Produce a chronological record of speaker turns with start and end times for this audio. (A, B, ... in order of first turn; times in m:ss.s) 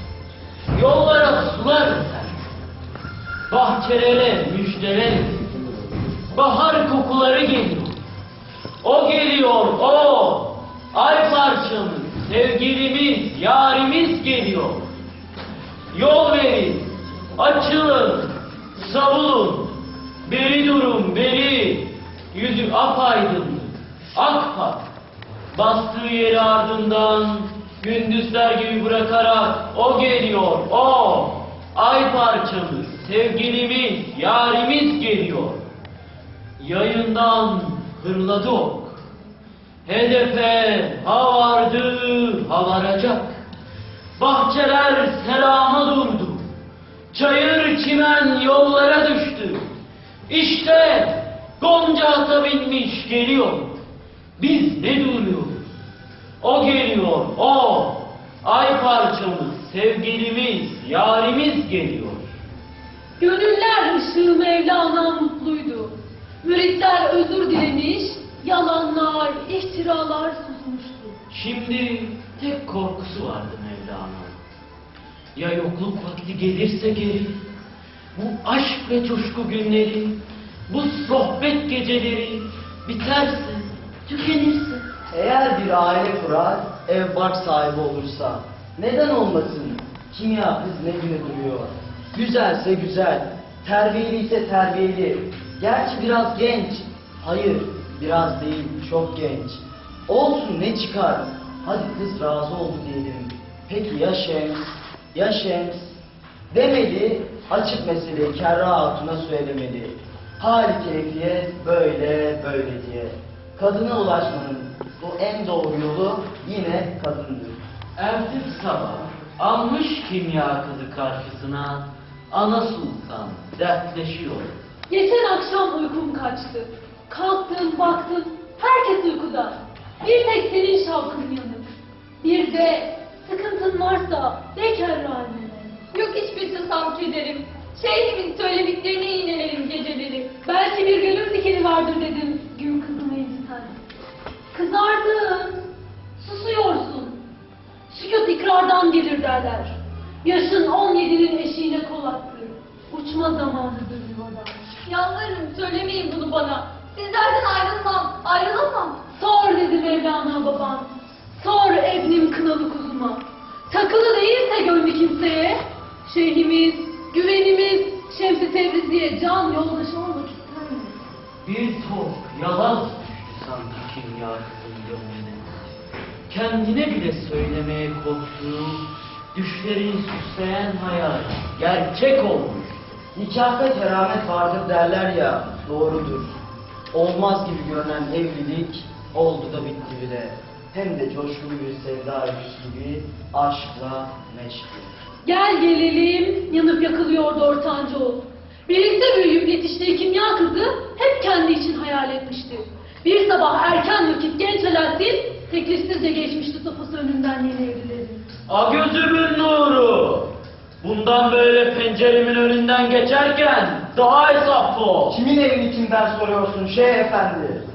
0:00.7-0:02.4 A
0:03.5-0:05.5 A
0:06.3-0:08.0 A
0:08.8-0:14.8 A
0:15.9-0:24.8 A
0:25.5-0:35.6 A
0:36.6-0:39.0 A
0:39.8-0:43.4 A
0:44.2-0:46.4 A
0:47.1-0:49.7 A
0:50.3-0:53.8 A
0:54.4-0:55.6 A
0:56.4-1:02.3 A
1:03.2-1:11.2 B
1:11.3-1:14.4 A
1:15.3-1:17.4 A
1:18.1-1:20.2 A
1:20.7-1:24.8 A
1:25.1-1:46.0 C
1:46.5-1:57.6 C
1:58.0-2:04.5 A
2:04.9-2:11.6 B
2:12.2-2:15.8 B
2:15.9-2:20.3 D
2:20.3-2:23.8 B
2:24.5-2:25.6 B
2:26.2-2:27.2 B
2:27.9-2:29.7 B
2:30.2-2:34.6 B
2:34.9-2:39.0 D
2:39.1-2:51.0 B
2:51.4-2:55.6 A
2:56.3-3:03.0 A
3:03.1-3:06.4 C
3:06.9-3:14.9 C
3:15.2-3:28.2 B
3:28.5-3:30.3 A
3:30.8-3:35.2 A
3:35.1-3:37.6 C